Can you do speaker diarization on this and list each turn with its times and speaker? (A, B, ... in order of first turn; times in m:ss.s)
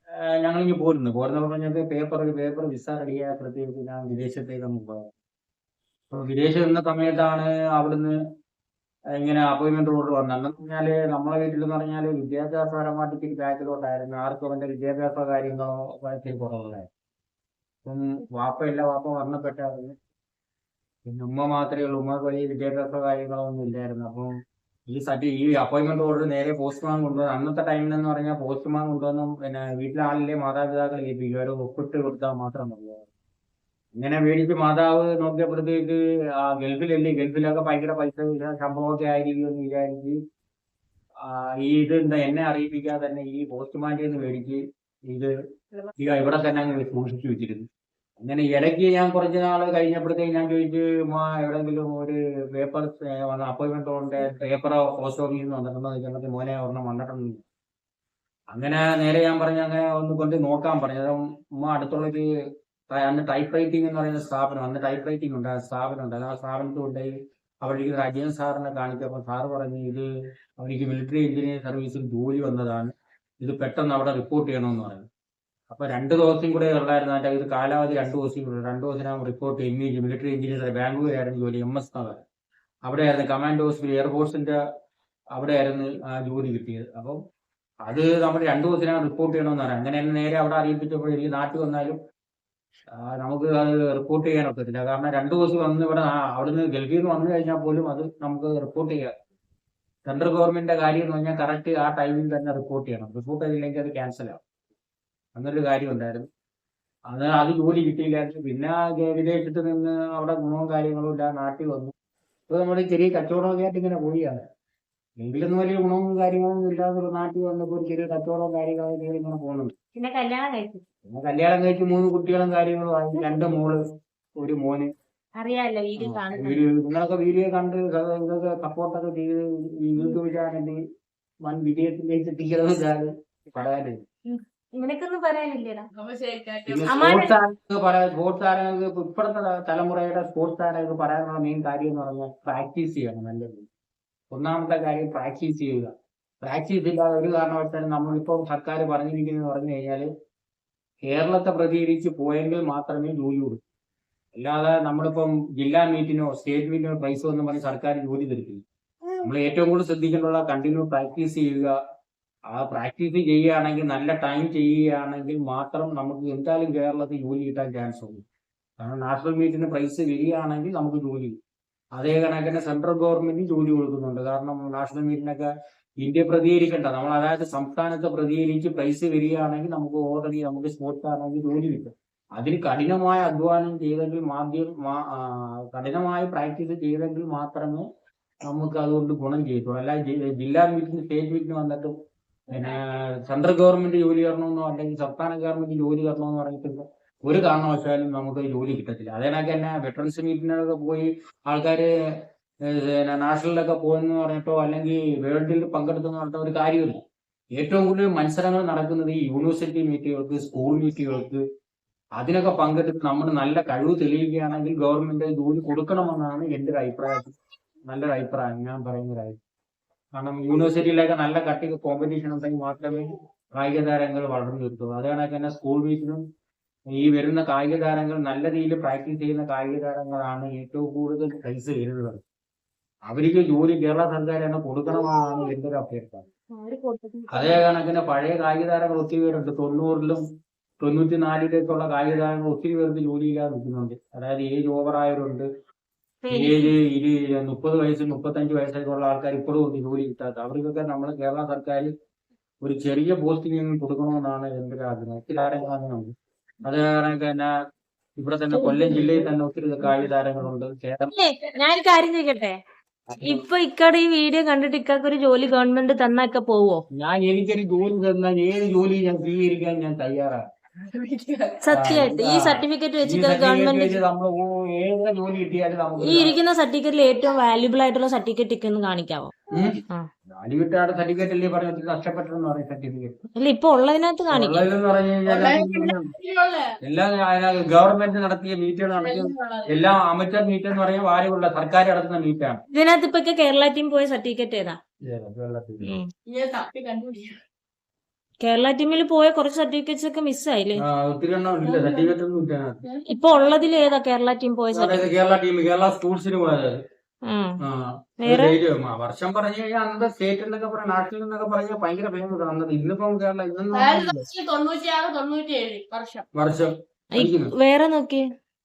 0:00.3-0:05.0 A
0:06.1-0:08.2 A
0:09.1-0:16.9 A
0:17.8-0:19.9 A
0:21.0-0:24.3 A
0:24.9-0:33.0 A
0:34.0-0:40.2 A
0:41.3-0:45.3 A
0:46.0-0:47.6 A
0:48.2-0:57.4 A
0:58.5-1:02.2 A
1:02.9-1:07.1 A
1:07.6-1:10.0 A
1:10.6-1:12.9 A
1:13.4-1:15.0 A
1:15.7-1:22.2 A
1:22.8-1:24.6 A
1:25.4-1:27.2 A
1:27.8-1:32.0 A
1:33.0-1:39.1 A
1:40.0-1:44.4 A
1:45.3-1:46.2 A
1:47.1-1:51.9 A
1:52.5-1:54.4 A
1:55.2-1:59.7 A
1:59.9-2:00.8 B
2:01.1-2:03.8 A
2:04.4-2:04.9 A
2:05.4-2:06.6 B
2:06.0-2:10.8 A
2:11.4-2:14.0 A
2:14.3-2:15.9 B
2:15.9-2:16.9 C
2:16.6-2:23.7 A
2:16.9-2:17.3 B
2:24.3-2:25.9 A
2:26.4-2:30.1 A
2:31.0-2:33.6 A
2:34.4-2:38.6 A
2:39.2-2:41.7 A
2:42.5-2:48.2 A
2:48.8-2:51.3 A
2:52.0-2:55.5 A
2:56.0-3:07.8 A
3:08.5-3:11.9 A
3:12.5-3:21.9 A
3:22.7-3:27.0 A
3:27.6-3:31.4 A
3:32.2-3:37.3 A
3:37.9-3:39.4 A
3:40.2-3:46.2 A
3:46.9-3:52.2 A
3:53.1-3:56.3 A
3:57.3-4:00.2 A
4:00.8-4:05.4 A
4:06.2-4:06.7 B
4:06.3-4:11.9 A
4:12.6-4:16.1 A
4:16.6-4:17.5 A
4:18.2-4:21.1 A
4:18.5-4:19.3 B
4:21.1-4:22.6 B
4:23.1-4:23.4 A
4:23.2-4:26.8 B
4:27.0-4:30.4 A
4:30.8-4:31.6 C
4:31.6-4:34.0 B
4:31.7-4:36.3 A
4:36.0-4:39.3 B
4:39.5-4:39.8 A
4:40.3-4:43.1 A
4:43.4-4:44.7 B
4:44.3-4:46.1 A
4:45.2-4:46.7 C
4:46.8-4:52.6 A
4:49.0-4:49.8 C
4:52.7-4:54.8 B
4:55.1-4:56.0 A
4:55.8-4:56.1 B
4:56.3-4:57.4 C
4:58.4-5:00.8 B
5:00.8-5:02.8 A
5:01.6-5:02.1 C
5:03.1-5:05.1 B
5:04.7-5:06.8 A
5:07.3-5:07.5 B
5:07.6-5:14.2 A
5:08.2-5:08.5 B
5:13.7-5:16.2 C
5:16.4-5:17.5 A
5:17.1-5:18.2 B